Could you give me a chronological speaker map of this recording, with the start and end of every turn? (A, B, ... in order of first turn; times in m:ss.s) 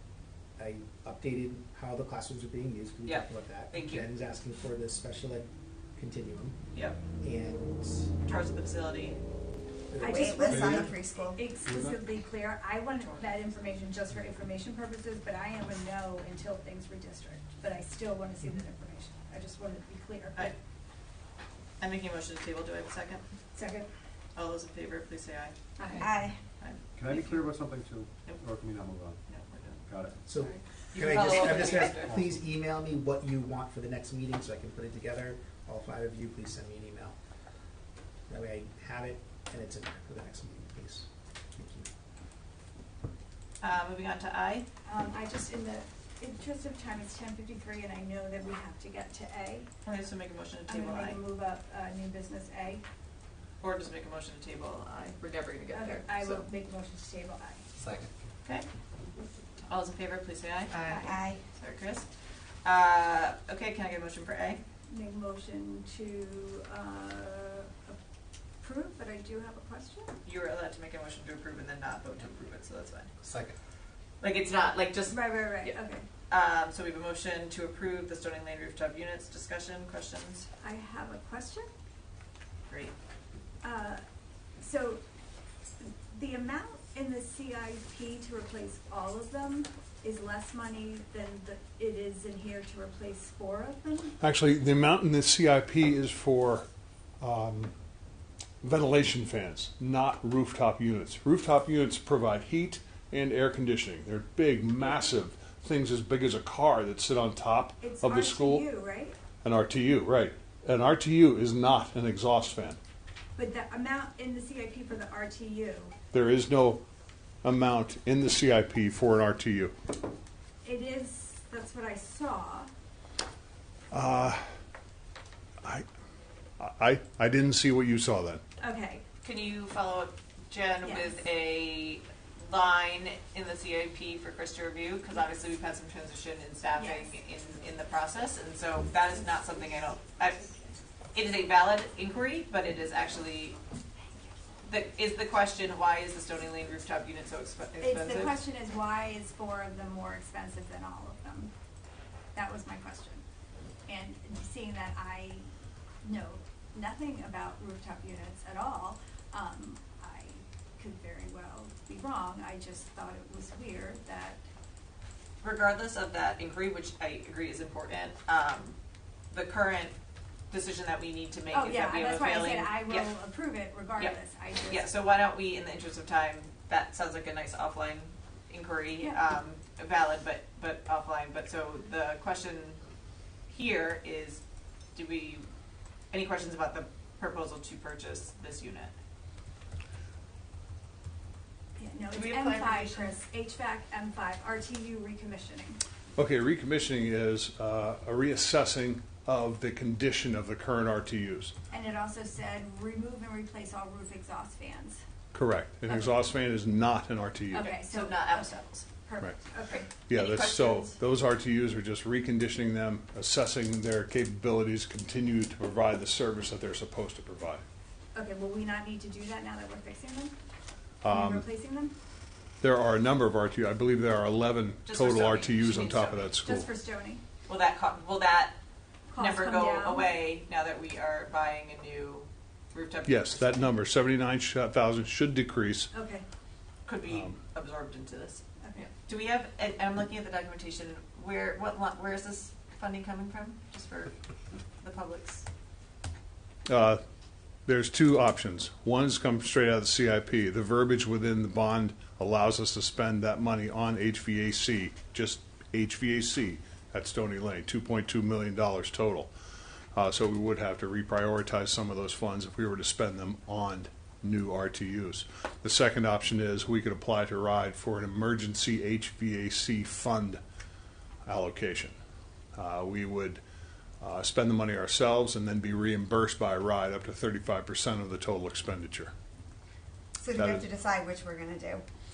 0:00.6-0:06.6 A
0:03.0-0:04.1 B
0:06.7-0:07.0 B
0:07.2-0:08.1 A
0:08.2-0:09.2 B
0:09.9-0:10.9 A
0:10.0-0:20.6 C
0:10.0-0:11.4 D
0:10.5-0:10.9 E
0:11.6-0:12.0 E
0:13.0-0:13.7 B
0:21.8-0:23.2 B
0:23.5-0:23.9 C
0:24.3-0:26.0 B
0:25.8-0:26.1 C
0:26.0-0:26.4 D
0:26.6-0:27.5 B
0:27.0-0:29.2 E
0:29.3-0:32.1 B
0:29.9-0:30.2 E
0:30.3-0:37.2 A
0:31.6-0:32.4 E
0:38.3-0:41.9 A
0:43.6-0:44.7 B
0:44.8-0:49.7 C
0:49.8-0:51.2 B
0:50.7-0:52.8 C
0:53.6-0:56.4 B
0:55.7-0:57.6 C
0:59.6-1:00.9 B
1:00.8-1:01.4 D
1:00.8-1:01.2 C
1:01.5-1:04.6 B
1:04.9-1:08.0 C
1:08.6-1:10.1 C
1:10.2-1:13.1 B
1:13.2-1:13.5 D
1:14.2-1:20.5 B
1:15.1-1:16.1 C
1:20.6-1:21.7 C
1:22.7-1:22.9 B
1:23.6-1:24.0 C
1:24.6-1:25.0 C
1:25.8-1:34.2 C
1:34.2-1:36.6 F
1:37.2-1:37.7 F
1:38.6-1:48.6 F
1:47.8-1:49.2 C
1:49.4-1:52.8 F
1:53.4-1:55.9 C
1:56.1-1:56.8 F
1:57.4-1:59.7 F
2:00.6-2:02.7 C
2:03.9-2:04.4 F
2:06.6-2:08.4 F
2:08.6-2:09.0 C
2:09.2-2:20.6 B
2:10.8-2:11.2 C
2:16.7-2:17.2 C
2:21.1-2:23.6 B
2:24.6-2:28.4 B
2:27.8-2:31.5 C
2:32.3-2:33.2 C
2:33.9-2:35.5 C
2:36.0-2:44.4 C
2:45.4-2:48.8 B
2:49.3-2:50.0 B
2:50.5-2:53.1 B
2:51.5-2:54.9 C
2:54.0-3:02.8 B
3:03.5-3:04.4 B
3:04.9-3:05.5 B
3:06.1-3:08.9 B
3:11.8-3:15.8 C
3:12.1-3:13.2 B
3:16.2-3:21.5 F
3:21.7-3:25.0 C
3:25.3-3:27.7 F
3:25.9-3:26.2 C
3:27.5-3:28.9 B
3:27.5-3:29.9 C
3:29.7-3:31.0 B
3:30.1-3:37.6 F
3:38.1-3:40.3 C
3:41.0-3:41.4 F
3:41.1-3:41.9 C
3:42.6-3:46.7 F
3:44.8-3:46.3 B
3:46.4-3:47.2 C
3:47.5-3:48.6 B
3:49.1-3:50.1 C
3:49.2-3:53.7 B
3:53.0-3:55.9 F
3:55.9-3:56.2 C
3:56.8-4:04.2 B
3:57.1-3:57.4 F
3:58.6-3:58.9 C
4:04.8-4:05.5 B
4:06.6-4:07.0 F
4:07.6-4:19.3 F
4:19.9-4:30.4 F
4:31.2-4:31.9 F
4:32.5-4:33.4 F
4:34.0-4:39.1 F
4:40.2-4:41.8 D
4:40.3-4:40.7 F